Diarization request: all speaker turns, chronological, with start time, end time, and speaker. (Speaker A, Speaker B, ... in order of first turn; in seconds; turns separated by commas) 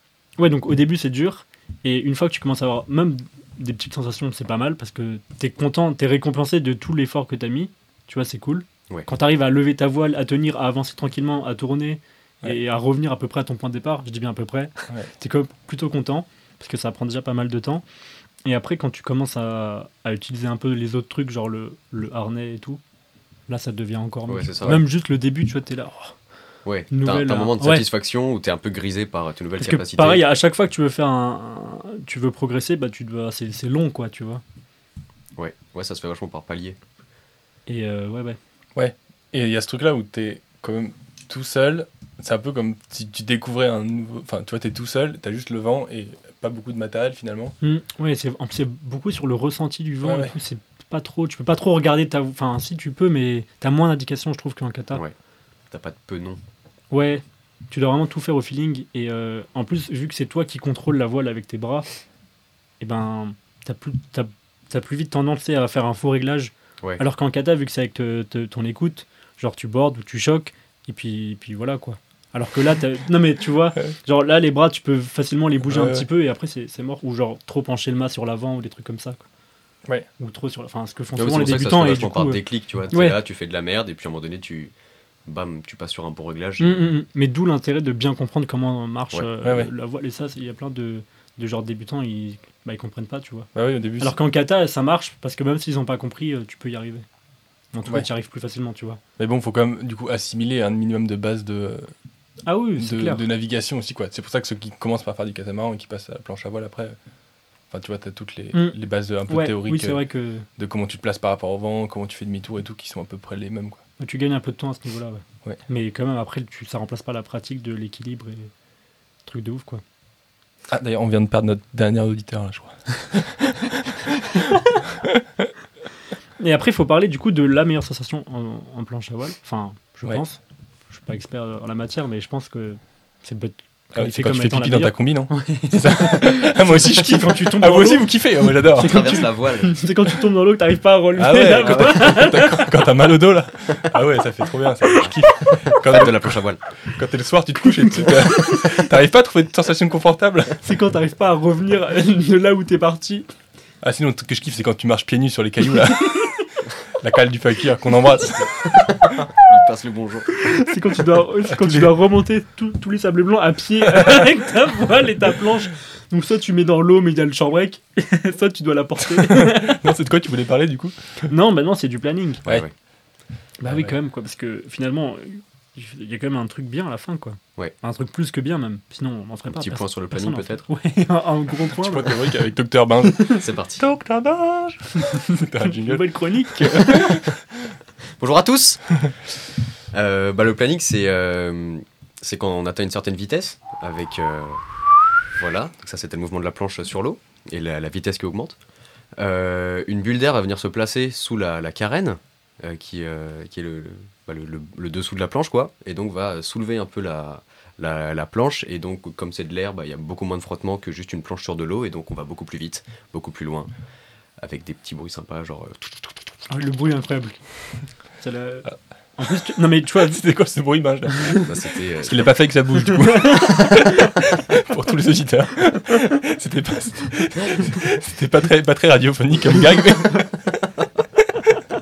Speaker A: 0.4-17.8, Speaker A: 18.4-22.8, Speaker A: 23.5-26.2, Speaker B: 24.3-24.8, Speaker B: 26.6-30.2, Speaker A: 26.9-27.9, Speaker A: 29.6-34.4, Speaker B: 35.4-36.8, Speaker A: 37.6-38.4, Speaker C: 38.7-47.5, Speaker A: 47.6-55.0, Speaker C: 50.0-50.3, Speaker B: 55.7-56.4, Speaker A: 56.9-62.0, Speaker A: 62.8-79.2, Speaker C: 75.6-76.1, Speaker A: 80.2-83.2, Speaker B: 81.2-84.7, Speaker B: 85.2-86.9, Speaker A: 86.6-97.0, Speaker C: 89.4-89.7, Speaker C: 93.5-94.2, Speaker A: 97.7-99.0, Speaker C: 99.2-101.9, Speaker A: 102.5-103.3, Speaker C: 102.8-107.0, Speaker C: 107.7-110.0, Speaker A: 108.5-110.5, Speaker C: 110.6-113.8, Speaker A: 114.0-118.5, Speaker A: 119.2-119.8, Speaker C: 120.7-124.1, Speaker C: 125.0-125.5, Speaker A: 126.4-142.7, Speaker C: 133.9-139.2, Speaker B: 138.8-139.8, Speaker C: 141.2-150.6, Speaker B: 141.3-142.2, Speaker B: 144.9-146.6, Speaker A: 148.0-148.6, Speaker A: 150.6-153.3, Speaker C: 153.8-159.1, Speaker A: 155.8-156.4, Speaker B: 158.9-160.5, Speaker A: 160.4-169.9, Speaker C: 161.5-161.9, Speaker C: 163.9-164.2, Speaker C: 169.1-171.3, Speaker A: 171.3-172.4, Speaker B: 172.4-172.7, Speaker A: 173.6-182.3, Speaker C: 173.6-173.9, Speaker B: 179.5-180.7, Speaker C: 181.7-187.4, Speaker A: 183.0-183.4, Speaker B: 183.4-183.8, Speaker A: 185.4-187.2, Speaker B: 188.2-189.3, Speaker B: 189.9-198.6, Speaker B: 199.1-213.7, Speaker B: 214.4-216.4, Speaker A: 216.5-220.2, Speaker C: 219.9-230.6, Speaker A: 221.1-221.4, Speaker B: 221.4-222.3, Speaker A: 222.8-223.8